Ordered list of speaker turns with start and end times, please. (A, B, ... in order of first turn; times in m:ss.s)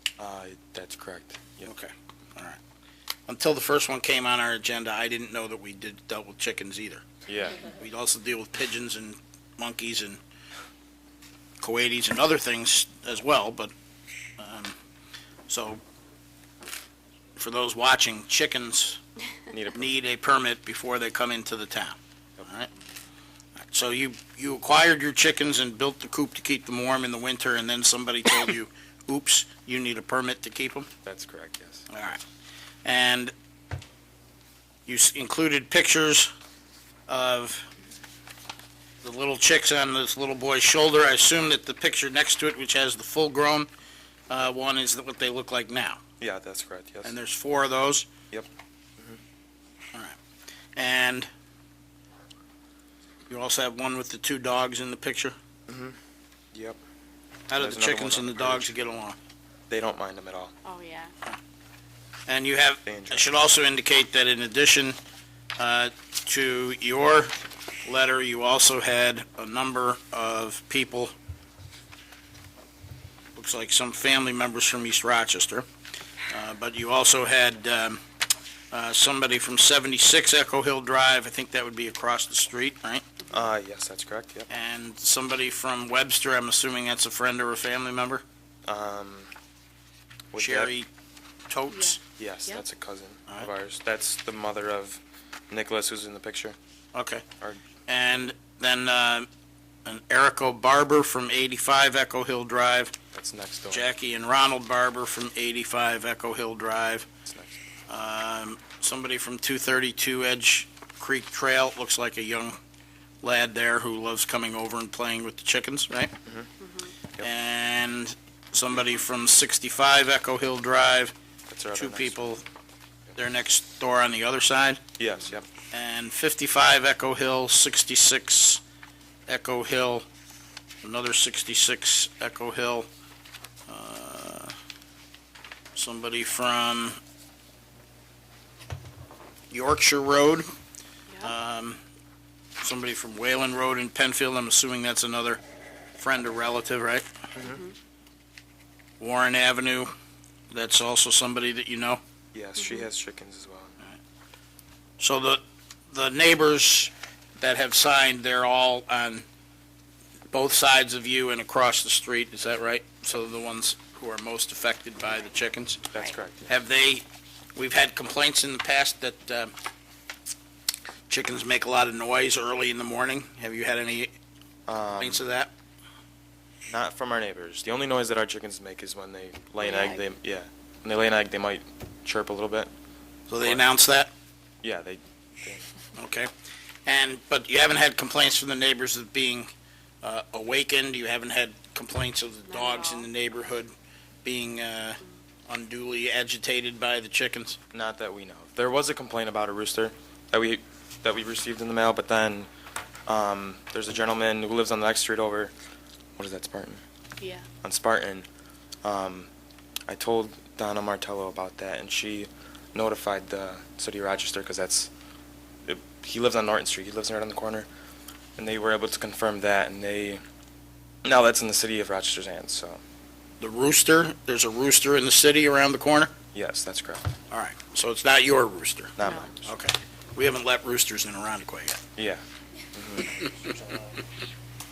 0:00.2-0:01.7 A
0:01.6-0:02.6 B
0:03.3-0:07.1 B
0:07.3-0:07.6 A
0:07.6-0:10.2 B
0:11.6-0:13.7 B
0:14.4-0:14.8 B
0:15.5-0:15.8 B
0:17.4-0:19.0 B
0:19.5-0:19.8 A
0:19.7-0:22.7 B
0:23.6-0:30.9 B
0:31.0-0:31.9 A
0:31.9-0:32.2 B
0:32.8-0:33.3 B
0:34.8-0:36.3 B
0:37.1-0:37.7 B
0:39.0-0:43.7 B
0:44.3-0:46.0 B
0:46.2-0:47.1 A
0:47.0-0:48.1 B
0:50.8-0:51.3 B
0:53.3-0:55.3 B
0:55.7-0:56.0 A
0:56.5-0:56.8 A
0:57.5-0:59.2 B
0:57.6-0:58.7 A
0:59.7-1:00.5 A
1:00.6-1:01.1 C
1:02.3-1:05.0 B
1:02.8-1:03.2 A
1:05.6-1:11.1 B
1:13.4-1:15.7 B
1:16.3-1:18.0 B
1:18.7-1:23.1 B
1:23.3-1:24.5 A
1:24.5-1:28.2 B
1:28.7-1:29.3 A
1:30.3-1:30.7 A
1:30.4-1:30.9 B
1:31.5-1:32.0 B
1:31.7-1:32.0 C
1:32.2-1:36.6 A
1:36.9-1:37.2 B
1:37.9-1:39.3 B
1:39.8-1:42.9 B
1:43.1-1:43.8 A
1:43.7-1:47.1 B
1:47.2-1:47.6 A
1:47.9-1:52.6 B
1:53.2-1:56.1 B
1:56.6-1:56.9 C
1:57.2-2:01.1 B
2:01.5-2:02.3 A
2:01.7-2:02.4 B
2:03.2-2:04.8 B
2:05.0-2:05.5 A
2:05.7-2:08.6 B
2:09.3-2:10.1 B
2:10.8-2:12.9 B
2:13.7-2:14.6 B
2:15.7-2:17.0 B
2:19.5-2:20.4 B
2:21.2-2:21.8 B
2:22.6-2:25.4 B
2:26.0-2:27.1 B
2:27.4-2:27.7 C
2:29.0-2:29.9 B
2:30.5-2:32.0 B
2:32.3-2:33.8 A
2:35.0-2:39.2 B
2:40.3-2:45.8 B
2:45.9-2:46.4 A
2:46.5-2:47.0 B
2:47.5-2:49.5 B
2:51.1-2:54.1 B
2:54.7-2:55.2 A
2:55.0-2:55.5 B
2:56.7-3:02.7 A
2:59.6-3:00.0 C
3:03.3-3:04.1 B
3:04.6-3:05.7 A
3:05.9-3:06.3 B
3:06.8-3:09.5 B
3:10.0-3:13.7 B
3:12.5-3:13.1 C
3:14.2-3:17.6 B
3:17.7-3:22.5 A
3:23.1-3:25.5 A
3:26.2-3:26.8 A
3:27.2-3:27.4 C
3:27.6-3:28.3 A
3:28.8-3:29.3 A
3:29.9-3:34.9 A
3:35.6-3:37.7 A
3:38.4-3:40.2 A
3:41.0-3:42.8 A
3:43.4-3:46.1 B
3:46.3-3:47.1 A
3:47.3-3:51.8 B
3:49.0-3:49.4 A
3:49.0-3:49.3 C
3:52.0-3:52.2 A
3:52.7-3:53.1 A